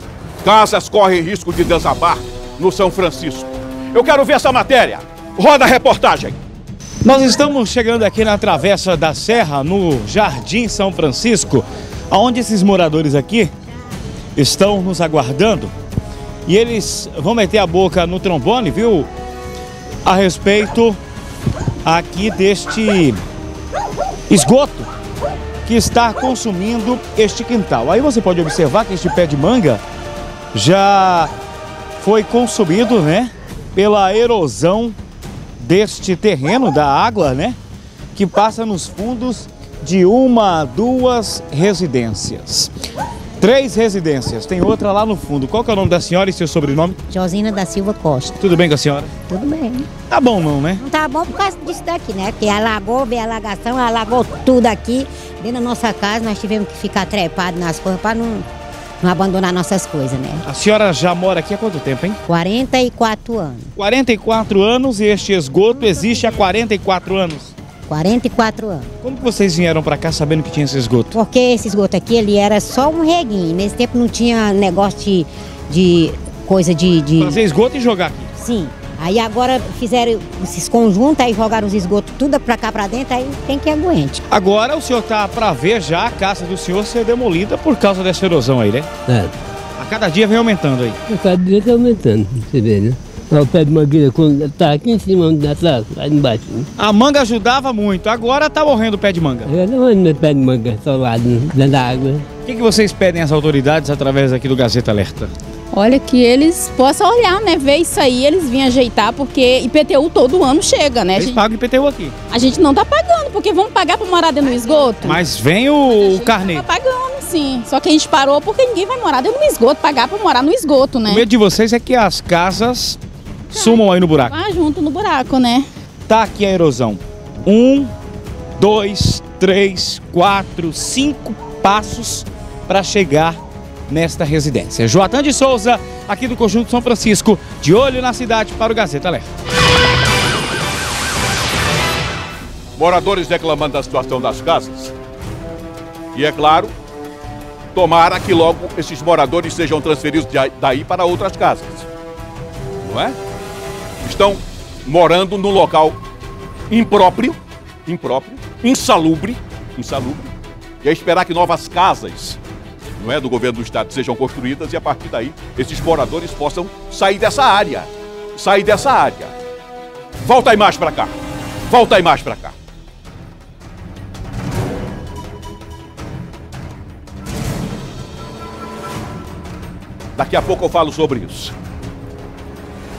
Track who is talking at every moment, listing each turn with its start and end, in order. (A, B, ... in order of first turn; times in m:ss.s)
0:00.4-0:06.4 A
0:07.0-0:13.5 B
0:14.4-0:15.7 B
0:16.5-0:19.1 B
0:20.0-0:21.0 B
0:21.8-0:23.2 B
0:24.3-0:24.9 B
0:25.6-0:29.8 B
0:30.5-0:31.3 B
0:32.0-0:35.0 B
0:35.6-0:37.6 B
0:38.1-0:42.7 B
0:43.4-0:47.0 B
0:47.1-0:48.4 C
0:48.4-0:49.1 B
0:49.3-0:49.9 C
0:50.1-0:50.8 B
0:50.8-0:58.5 C
0:59.0-1:00.4 C
1:00.4-1:02.2 B
1:02.3-1:03.7 C
1:03.8-1:07.6 B
1:07.9-1:08.9 C
1:09.0-1:11.2 B
1:11.1-1:17.4 C
1:17.2-1:18.3 B
1:18.4-1:24.2 C
1:24.3-1:28.9 B
1:29.1-1:29.4 D
1:29.8-1:31.0 B
1:31.1-1:36.7 D
1:36.8-1:39.5 B
1:39.5-1:42.3 D
1:42.4-1:45.3 B
1:45.7-1:51.3 E
1:51.2-1:52.1 B
1:52.3-1:54.7 E
1:54.4-1:55.1 C
1:54.8-1:55.2 A
1:55.0-1:56.7 B
1:56.0-2:01.2 E
2:01.1-2:03.0 B
2:03.5-2:04.4 B
2:04.3-2:05.7 E
2:06.1-2:07.9 B
2:08.6-2:19.3 B
2:22.8-2:24.9 A
2:26.1-2:26.7 A
2:27.7-2:31.9 A
2:32.8-2:33.2 A
2:34.0-2:36.0 A
2:36.7-2:42.4 A
2:43.0-2:49.3 A
2:50.2-2:51.1 A
2:51.7-2:52.6 A
3:00.2-3:01.6 A